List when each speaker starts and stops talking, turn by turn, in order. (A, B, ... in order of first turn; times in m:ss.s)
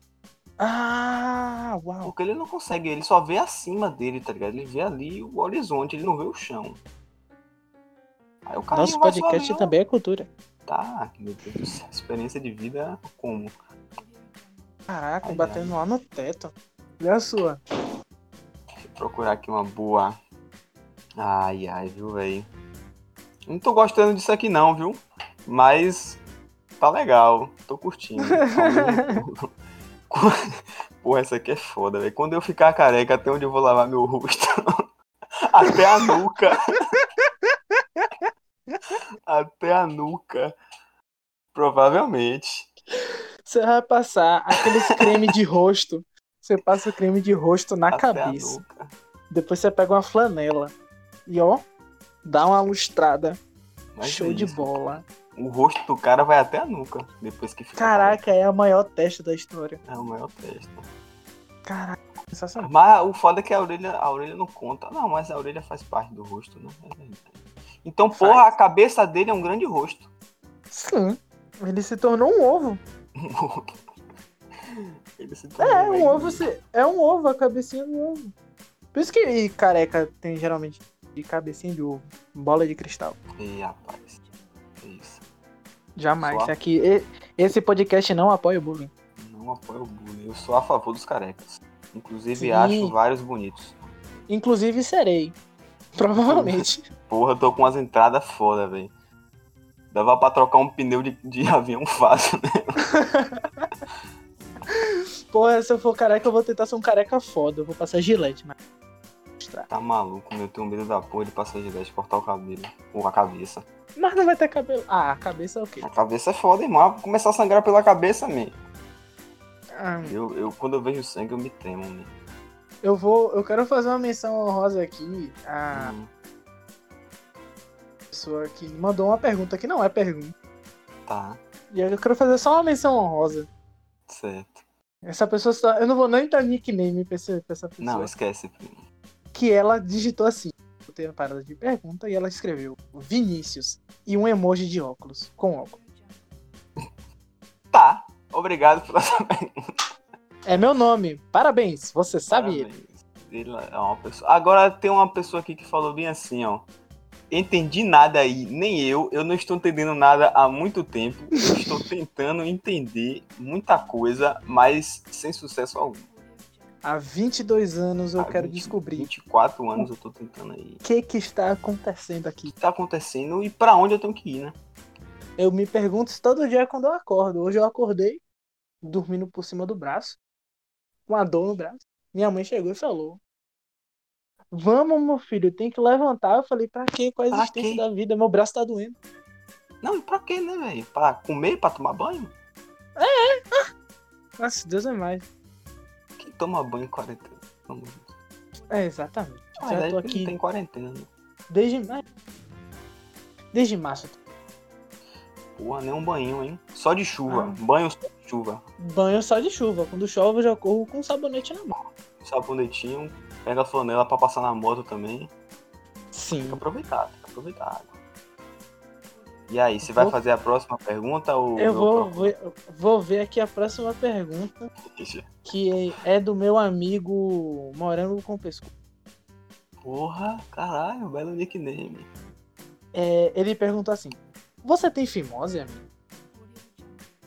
0:00.6-0:02.1 A
0:02.0-0:06.8 B
0:08.5-0:09.7 B
0:08.7-0:10.3 A
0:10.7-0:13.5 B
0:14.9-0:17.6 A
0:15.2-0:15.7 B
0:18.8-0:20.2 B
0:21.2-0:22.5 B
0:23.5-0:26.2 B
0:26.8-0:29.5 B
0:28.2-0:29.2 A
0:30.1-0:30.4 B
0:31.0-0:34.8 B
0:35.5-0:36.6 B
0:35.6-0:36.1 A
0:38.0-0:39.0 A
0:39.3-0:40.5 B
0:41.5-0:42.7 B
0:43.5-0:48.6 A
0:47.9-0:48.9 B
0:49.3-0:50.7 A
0:51.3-0:51.6 A
0:52.2-0:53.4 A
0:54.0-0:54.8 B
0:54.0-0:55.0 A
0:55.4-0:58.2 B
0:57.8-0:59.8 A
0:59.8-1:00.9 B
1:01.7-1:02.7 A
1:02.6-1:10.1 B
1:08.1-1:08.5 A
1:10.7-1:12.8 A
1:13.2-1:13.8 B
1:14.6-1:16.4 B
1:15.6-1:18.3 A
1:18.9-1:23.2 A
1:23.4-1:24.2 B
1:24.8-1:25.2 B
1:26.0-1:28.9 A
1:26.2-1:26.5 B
1:29.2-1:33.8 B
1:32.4-1:33.0 A
1:34.3-1:35.4 A
1:36.0-1:36.8 A
1:36.2-1:38.9 B
1:39.9-1:42.8 B
1:42.9-1:43.7 A
1:44.7-1:48.6 A
1:49.4-1:49.7 A
1:49.7-1:53.6 B
1:54.0-1:55.8 A
1:55.8-1:58.6 B
1:59.8-2:00.2 A
2:00.0-2:02.1 B
2:02.8-2:05.9 A
2:05.7-2:06.1 B
2:08.1-2:10.3 A
2:11.1-2:11.4 B
2:11.7-2:13.5 A
2:14.1-2:14.6 B
2:15.0-2:18.1 A
2:17.8-2:18.8 B
2:19.3-2:25.8 A
2:27.7-2:29.6 B
2:30.5-2:32.7 A
2:32.3-2:36.7 B
2:37.3-2:46.1 B
2:41.4-2:41.8 A
2:46.8-2:49.1 A
2:48.2-2:50.8 B
2:50.8-2:52.5 A
2:52.5-2:54.6 B
2:55.4-2:58.2 A
2:58.8-3:00.2 A
3:01.1-3:03.2 A
3:04.5-3:09.0 A
3:07.3-3:07.8 B
3:09.8-3:12.3 B
3:13.0-3:13.7 A
3:14.4-3:15.3 A
3:16.2-3:18.1 B
3:18.7-3:20.3 A
3:19.6-3:21.1 B
3:21.5-3:22.0 A
3:23.5-3:24.2 A
3:25.6-3:28.7 B
3:27.3-3:27.6 A
3:28.8-3:31.7 A
3:32.2-3:35.3 B
3:36.1-3:36.6 A
3:36.5-3:37.9 B
3:39.5-3:42.3 B
3:39.8-3:40.2 A
3:41.6-3:44.7 A
3:45.0-3:45.3 B
3:45.5-3:48.7 A
3:49.8-3:52.1 B
3:52.9-3:55.8 A